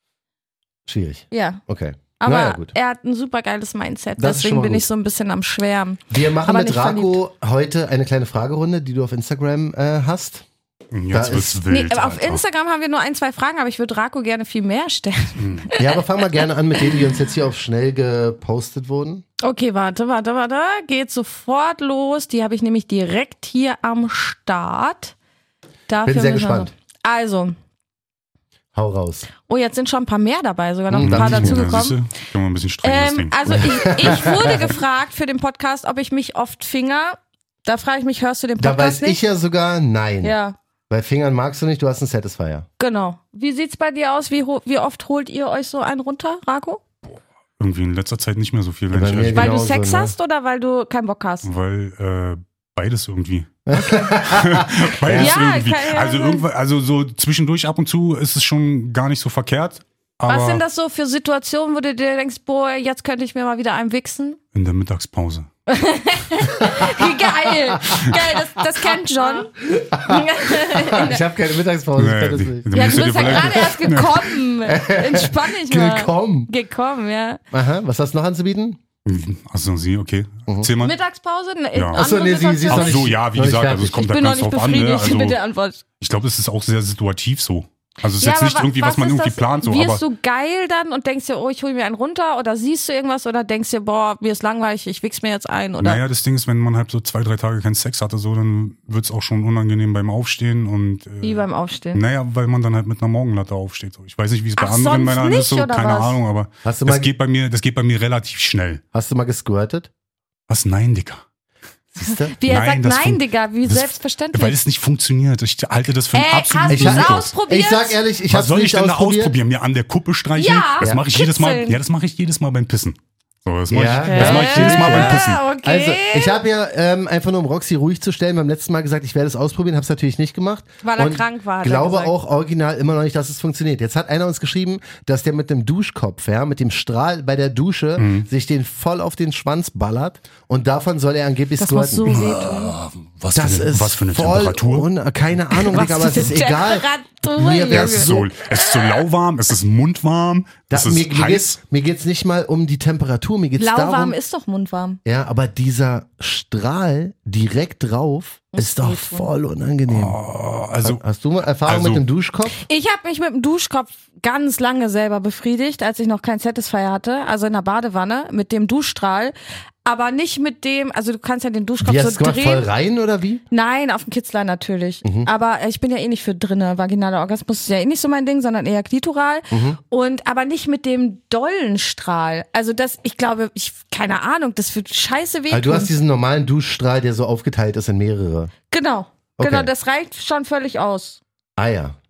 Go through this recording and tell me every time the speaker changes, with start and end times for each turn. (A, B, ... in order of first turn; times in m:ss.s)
0:00.9-0:02.7 A
0:01.3-0:01.6 B
0:02.2-0:07.2 B
0:04.2-0:04.8 A
0:06.1-0:10.5 A
0:10.9-0:12.4 C
0:11.1-0:11.6 A
0:11.7-0:15.9 B
0:15.4-0:15.7 C
0:15.8-0:19.2 A
0:19.4-0:25.1 B
0:25.9-0:27.6 B
0:26.0-0:26.7 A
0:28.7-0:29.3 A
0:29.5-0:32.0 B
0:30.9-0:31.7 A
0:31.0-0:34.3 C
0:32.8-0:39.2 B
0:33.5-0:34.7 A
0:38.6-0:40.4 A
0:40.2-0:40.6 B
0:40.9-0:42.7 A
0:42.8-0:46.8 B
0:47.6-0:49.6 C
0:48.9-0:50.2 A
0:49.3-0:51.5 B
0:51.4-1:00.6 C
0:53.7-0:55.4 A
0:55.1-0:56.4 B
1:00.3-1:04.4 B
1:04.5-1:05.5 C
1:05.7-1:09.5 B
1:06.7-1:08.2 A
1:09.6-1:14.1 A
1:10.0-1:11.2 B
1:12.0-1:14.3 C
1:12.7-1:17.4 B
1:14.7-1:16.5 A
1:17.5-1:18.8 A
1:19.0-1:21.0 C
1:20.8-1:23.0 B
1:21.8-1:22.1 C
1:21.9-1:24.0 A
1:22.7-1:25.4 C
1:23.9-1:25.8 B
1:26.0-1:30.0 C
1:28.2-1:36.0 B
1:35.8-1:48.8 C
1:41.2-1:42.0 B
1:44.6-1:46.2 B
1:46.6-1:47.1 A
1:48.9-1:49.9 A
1:50.5-1:51.2 C
1:51.9-1:52.4 A
1:52.3-1:54.6 B
1:52.5-1:57.3 C
1:56.1-1:58.0 B
1:56.7-1:59.4 A
1:58.3-2:05.4 C
2:00.4-2:01.8 B
2:03.7-2:22.4 A
2:04.1-2:06.4 B
2:10.8-2:12.1 B
2:18.0-2:18.3 C
2:21.6-2:22.8 B
2:22.1-2:24.9 C
2:23.3-2:28.3 A
2:25.6-2:29.0 B
2:27.7-2:31.6 C
2:30.7-2:34.2 A
2:33.6-2:35.0 B
2:35.0-2:40.2 A
2:38.5-2:39.3 B
2:39.9-2:41.0 C
2:40.8-2:42.6 A
2:41.6-2:42.0 C
2:42.6-2:49.3 B
2:49.8-2:52.7 B
2:51.8-2:53.4 A
2:53.5-3:05.9 B
2:55.0-2:55.3 A
2:59.5-2:59.8 A
3:05.5-3:08.5 A
3:08.7-3:11.2 B
3:09.4-3:09.7 A
3:11.6-3:12.0 A